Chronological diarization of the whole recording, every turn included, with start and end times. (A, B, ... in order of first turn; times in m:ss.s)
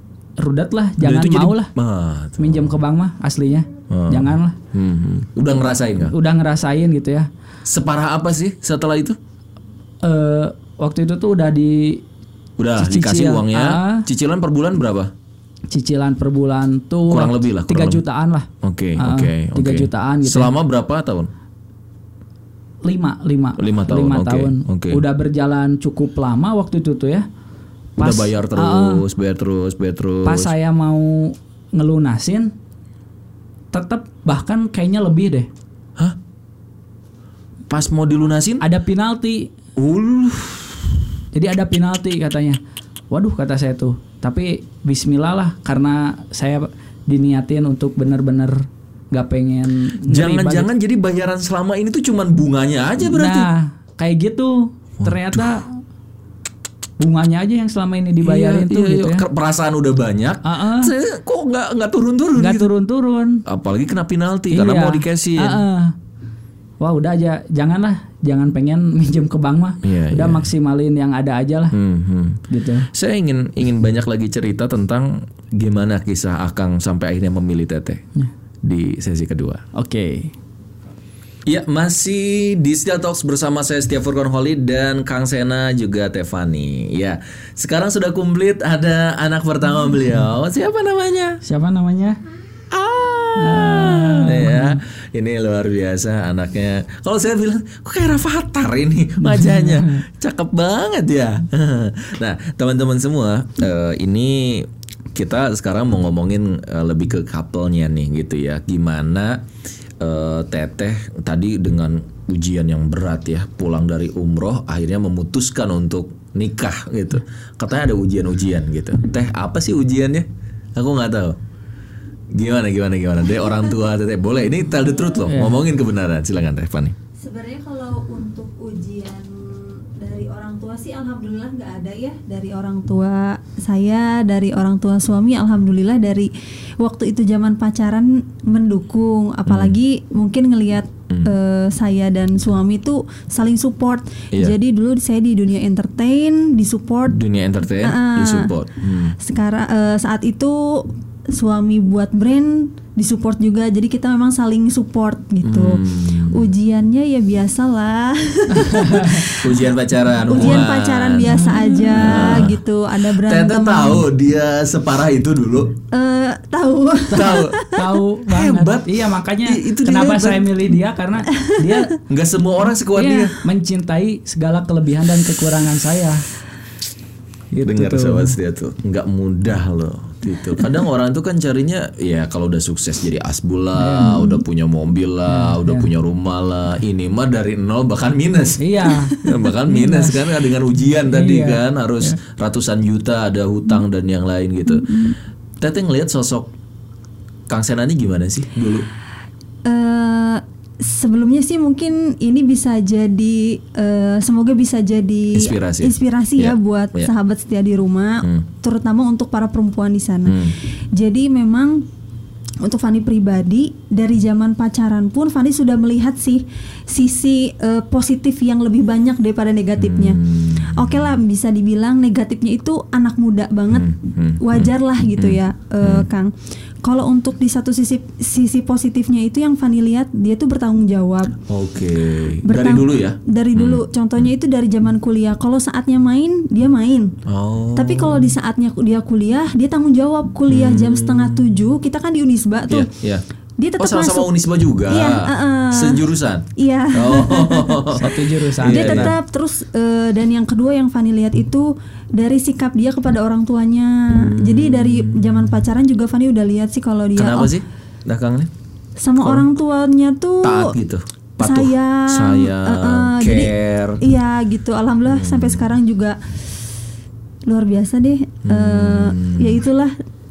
0:00.4-0:01.7 A
0:01.0-0:02.8 B
0:02.4-0:04.6 A
0:03.9-0:06.1 B
0:06.0-0:07.3 A
0:07.6-0:09.2 B
0:10.0-0:12.0 A
0:12.6-0:15.1 B
0:12.8-0:14.1 A
0:15.7-0:20.5 A
0:17.1-0:18.0 B
0:18.6-0:21.3 B
0:22.8-0:27.2 A
0:23.6-0:25.0 B
0:28.0-0:29.0 A
0:28.0-0:30.5 B
0:30.2-0:32.5 A
0:33.7-0:35.5 A
0:37.7-0:38.6 B
0:38.6-0:39.5 A
0:39.8-0:41.0 B
0:41.3-0:42.6 A
0:43.1-0:50.7 A
0:50.1-0:53.5 B
0:53.0-0:55.7 A
0:55.0-0:55.5 B
0:57.0-0:59.2 A
0:58.2-1:02.7 B
1:00.4-1:00.9 A
1:02.4-1:03.4 A
1:03.4-1:05.6 B
1:04.5-1:05.9 A
1:06.8-1:11.8 A
1:09.8-1:10.5 B
1:11.7-1:18.0 B
1:12.5-1:12.9 A
1:18.6-1:19.6 B
1:19.7-1:20.3 A
1:21.4-1:31.4 B
1:31.4-1:32.2 A
1:32.7-1:49.4 B
1:33.4-1:34.8 A
1:39.2-1:40.0 A
1:50.0-2:01.4 B
2:02.3-2:06.9 B
2:05.2-2:05.6 A
2:07.2-2:27.2 C
2:19.4-2:19.8 B
2:27.1-2:29.2 B
2:27.8-2:28.5 C
2:29.2-2:44.1 C
2:35.4-2:36.5 B
2:38.5-2:39.2 A
2:39.2-2:45.8 B
2:41.3-2:42.5 A
2:45.9-2:47.8 C
2:47.1-2:47.6 B
2:47.2-2:52.0 A
2:48.3-2:50.5 B
2:52.1-2:53.4 B
2:52.9-2:56.2 A
2:57.5-2:58.4 A
2:57.6-3:15.0 B
3:03.8-3:04.4 A
3:05.3-3:05.9 A
3:08.6-3:10.3 A
3:11.0-3:12.2 A
3:14.7-3:15.2 C
3:15.6-3:16.5 B
3:17.5-3:18.9 B
3:19.6-3:31.8 C
3:25.3-3:27.1 B
3:30.2-3:30.5 B
3:32.6-3:46.3 C
3:39.8-3:41.2 B
3:43.7-3:46.1 B
3:46.8-3:51.3 C
3:51.5-3:53.8 B
3:52.4-3:57.1 C
3:57.2-3:58.3 B
3:57.7-4:02.9 C
4:00.5-4:01.5 B
4:02.7-4:03.2 B
4:03.6-4:04.3 C
4:03.8-4:09.2 B
4:04.9-4:06.0 C
4:06.6-4:08.1 C
4:07.9-4:09.1 A
4:08.6-4:17.5 C
4:14.1-4:15.5 B
4:17.2-4:18.5 B
4:19.0-4:20.7 C
4:19.2-4:19.5 B
4:20.4-4:24.0 B
4:21.4-4:26.2 C
4:25.1-4:25.6 B
4:27.4-4:30.0 C
4:28.4-4:29.6 B